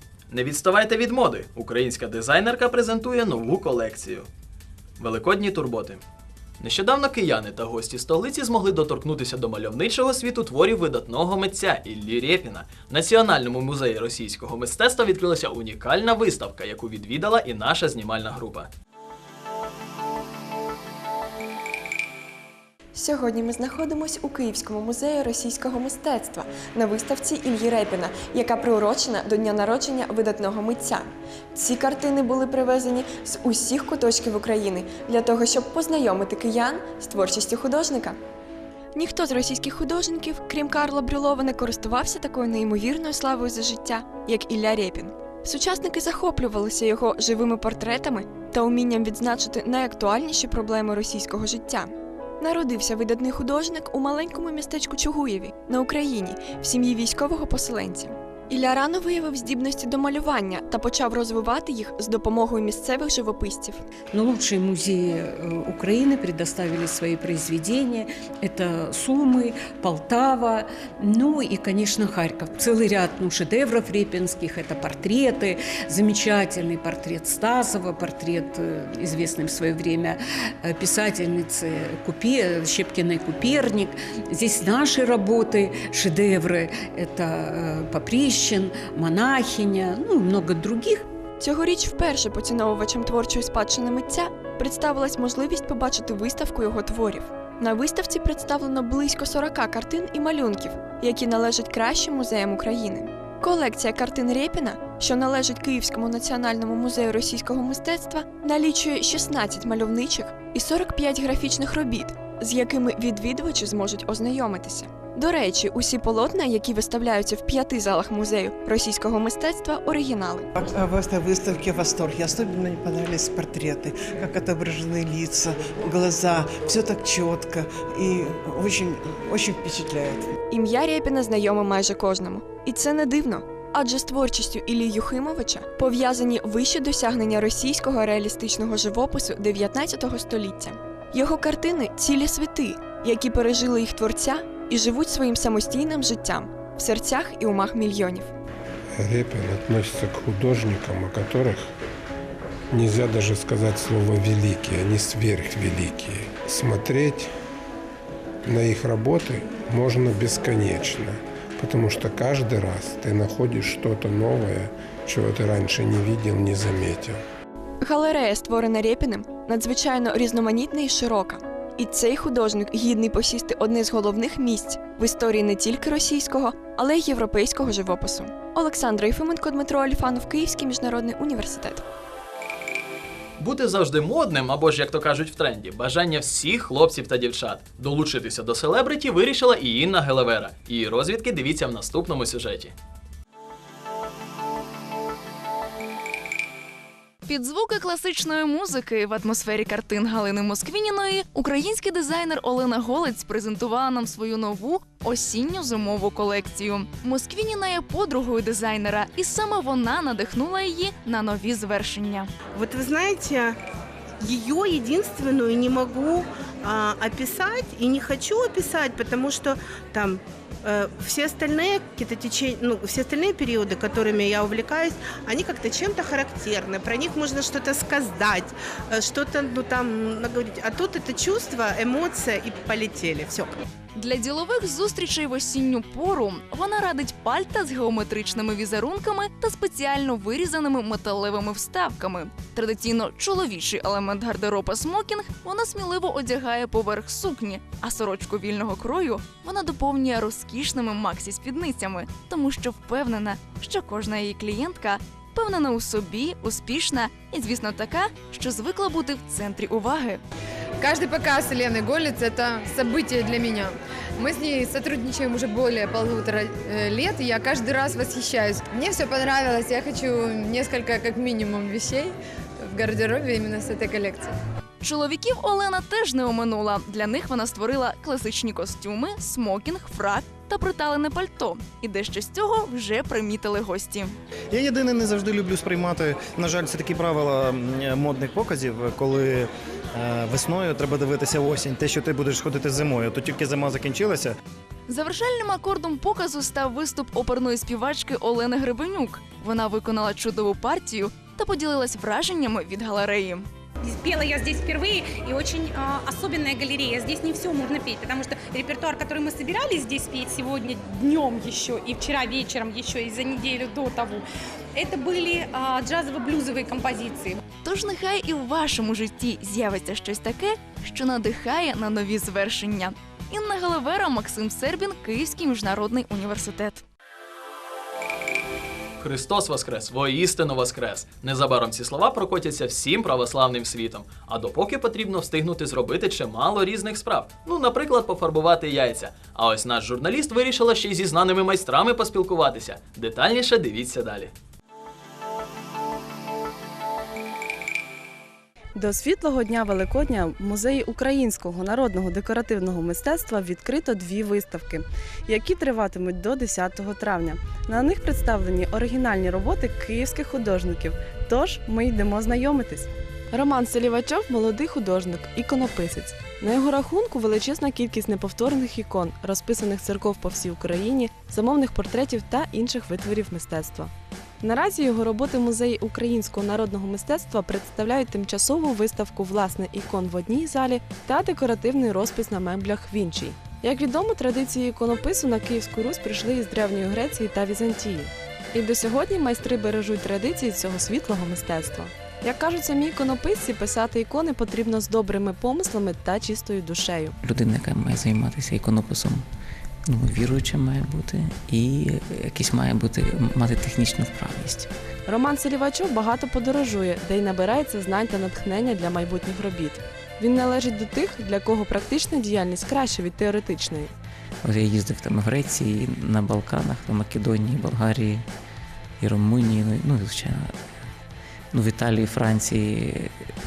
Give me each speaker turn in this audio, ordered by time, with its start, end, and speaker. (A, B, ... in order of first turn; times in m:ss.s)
0:00.3-0:04.3 A
0:05.0-0:06.0 A
0:06.6-0:18.7 A
0:23.0-0:38.2 B
0:39.0-1:03.8 B
1:04.1-1:31.1 C
1:31.4-2:00.5 B
2:00.6-2:10.3 D
2:10.5-2:28.3 B
2:29.0-2:31.7 E
2:32.7-2:37.3 E
2:38.5-2:47.2 E
2:47.8-3:01.8 B
3:03.4-3:12.8 A
3:17.3-3:32.3 F
3:32.5-3:33.6 G
3:34.2-3:53.6 G
3:54.0-4:20.2 F
4:20.8-4:34.4 H
4:34.8-4:44.2 F
4:44.5-4:54.4 I
4:54.9-5:03.5 F
5:03.8-5:14.2 J
5:14.8-5:17.4 J
5:17.6-5:26.8 F
5:29.0-5:44.3 A
5:48.8-6:13.9 K
6:14.4-6:37.1 K
6:37.2-6:39.2 L
6:39.9-6:44.7 L
6:45.1-6:53.9 K
6:54.4-6:58.2 L
6:59.0-7:00.5 L
7:01.5-7:03.1 L